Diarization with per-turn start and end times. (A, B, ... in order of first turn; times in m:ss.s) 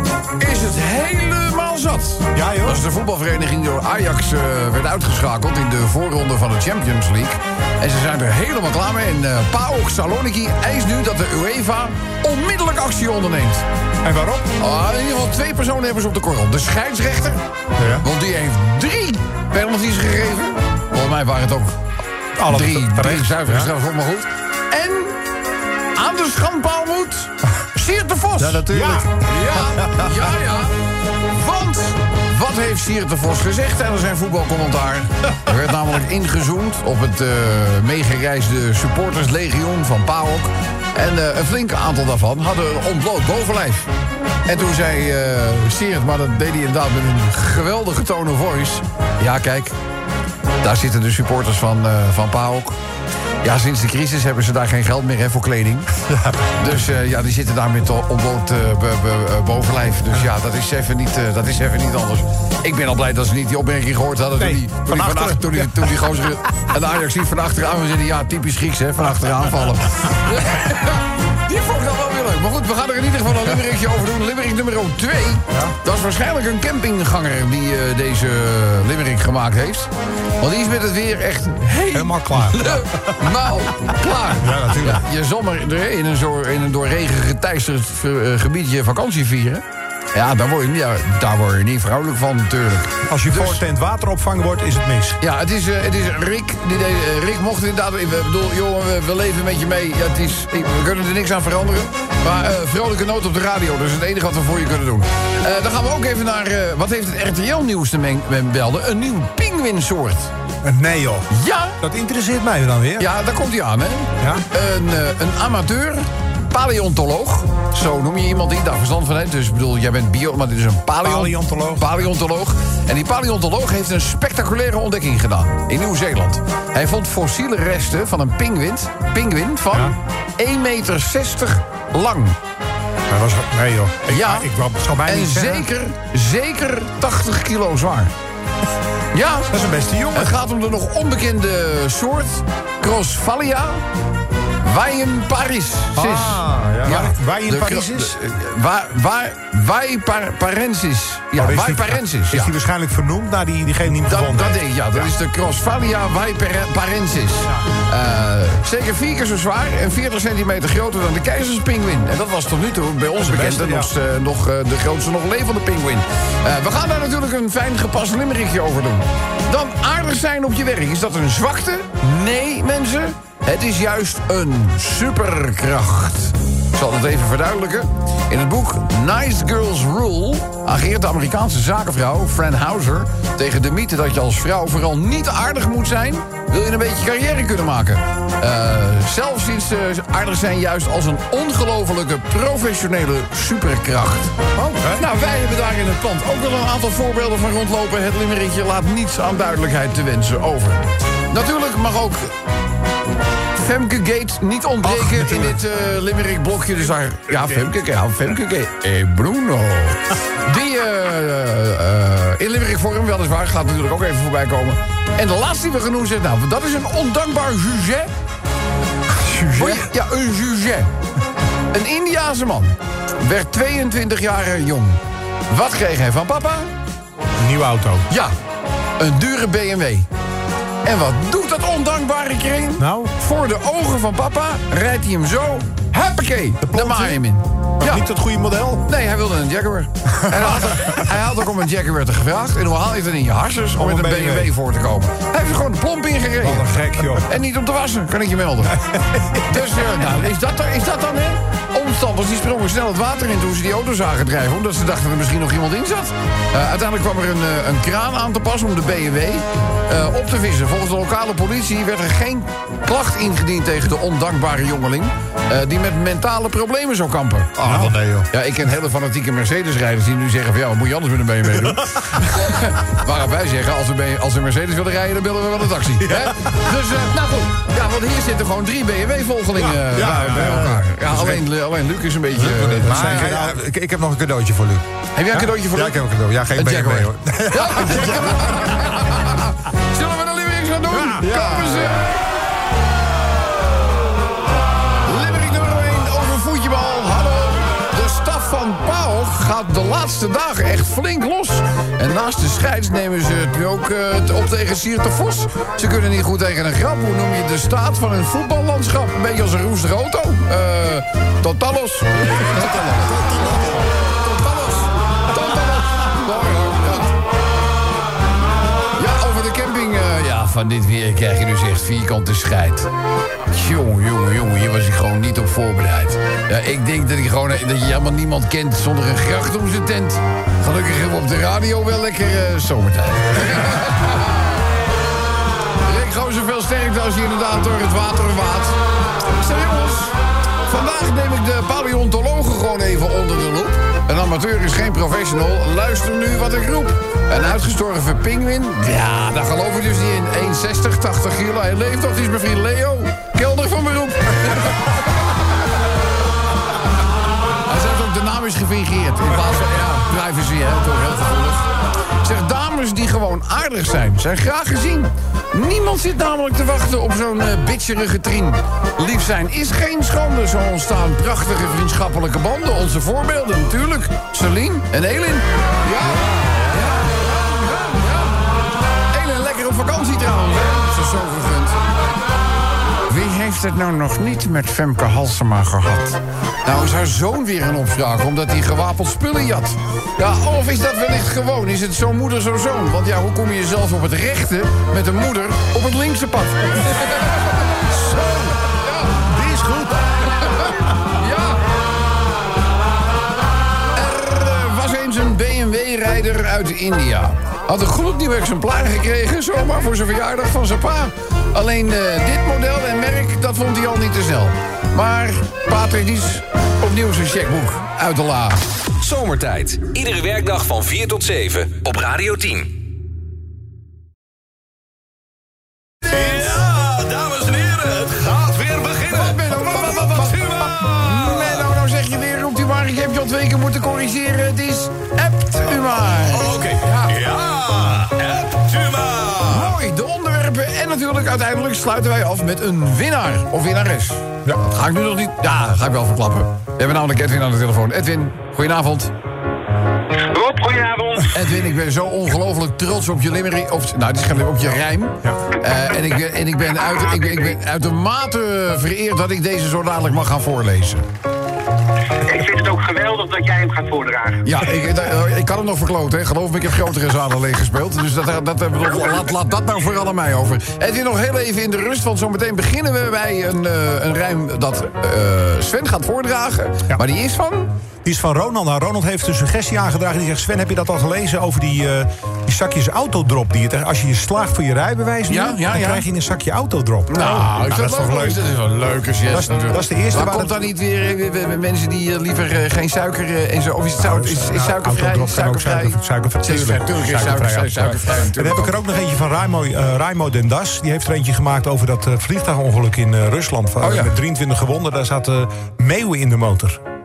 0:00.4-0:13.6 A
0:02.3-0:02.8 B
0:14.0-0:14.5 B
0:14.6-0:17.4 A
0:17.8-0:18.1 B
0:18.0-0:21.8 A
0:22.4-0:23.7 B
0:22.5-0:25.2 A
0:26.0-0:30.8 A
0:28.4-0:29.1 B
0:28.6-0:29.0 C
0:31.3-0:43.9 A
0:44.5-0:49.8 A
0:50.6-0:52.8 A
0:53.4-0:55.9 A
0:56.6-1:19.9 A
1:04.4-1:06.0 B
1:20.4-1:29.6 A
1:21.9-1:23.1 B
1:24.4-1:25.0 B
1:24.6-1:24.9 C
1:30.1-1:33.6 A
1:33.1-1:35.2 B
1:35.2-1:50.3 A
1:50.6-1:51.3 B
1:51.3-1:51.8 A
1:51.8-1:53.1 B
1:53.0-2:12.4 A
2:01.0-2:01.9 B
2:13.1-2:15.7 B
2:14.1-2:14.5 A
2:15.0-2:18.1 A
2:19.1-2:23.8 A
2:19.5-2:20.4 B
2:24.6-2:32.5 A
2:26.0-2:28.2 B
2:31.4-2:35.1 B
2:34.1-3:14.3 A
2:43.2-2:43.9 B
3:14.6-3:15.0 B
3:15.0-3:22.3 A
3:23.6-3:38.1 A
3:25.0-3:25.4 C
3:39.2-3:39.8 C
3:39.5-3:40.9 A
3:41.7-3:46.7 A
3:47.4-3:48.1 B
3:48.1-3:48.3 A
3:49.0-3:50.1 A
3:50.8-3:58.1 A
3:52.8-3:53.1 B
3:56.6-3:57.2 B
3:57.8-3:58.8 B
3:58.9-4:08.8 A
4:00.2-4:01.0 B
4:03.8-4:04.5 B
4:06.4-4:07.3 B
4:08.6-4:09.6 B
4:09.4-4:43.4 A
4:27.6-4:28.3 C
4:27.6-4:28.0 B
4:36.0-4:36.6 B
4:39.6-4:40.9 B
4:40.4-4:40.6 C
4:42.4-4:44.8 C
4:42.4-4:43.6 B
4:45.2-4:46.0 A
4:45.4-4:48.2 C
4:46.5-4:52.1 A
4:47.9-4:48.5 B
4:50.9-4:52.1 B
4:55.0-5:17.2 A
5:12.5-5:13.7 B
5:19.0-5:22.9 A
5:23.5-5:34.6 A
5:35.8-5:38.8 A
5:39.3-5:40.2 A
5:40.7-5:55.1 A
5:57.7-6:01.7 A
6:02.2-6:18.4 A
6:19.1-6:21.8 A
6:23.1-6:37.7 A
6:37.9-6:38.5 B
6:38.6-6:39.2 A
6:39.2-6:40.7 B
6:40.4-6:41.6 A
6:43.9-6:58.6 A
6:59.0-7:02.7 D
7:06.1-7:11.7 E
7:09.1-7:17.2 A
7:16.2-7:19.8 E
7:19.5-7:29.1 A
7:30.2-7:31.4 F
7:31.3-7:41.0 A
7:42.2-7:44.4 F
7:44.4-7:57.7 A
7:58.0-8:08.4 B
8:05.3-8:06.1 A
8:07.1-8:18.8 A
8:09.3-8:10.5 B
8:14.0-8:26.8 B
8:23.8-8:24.1 A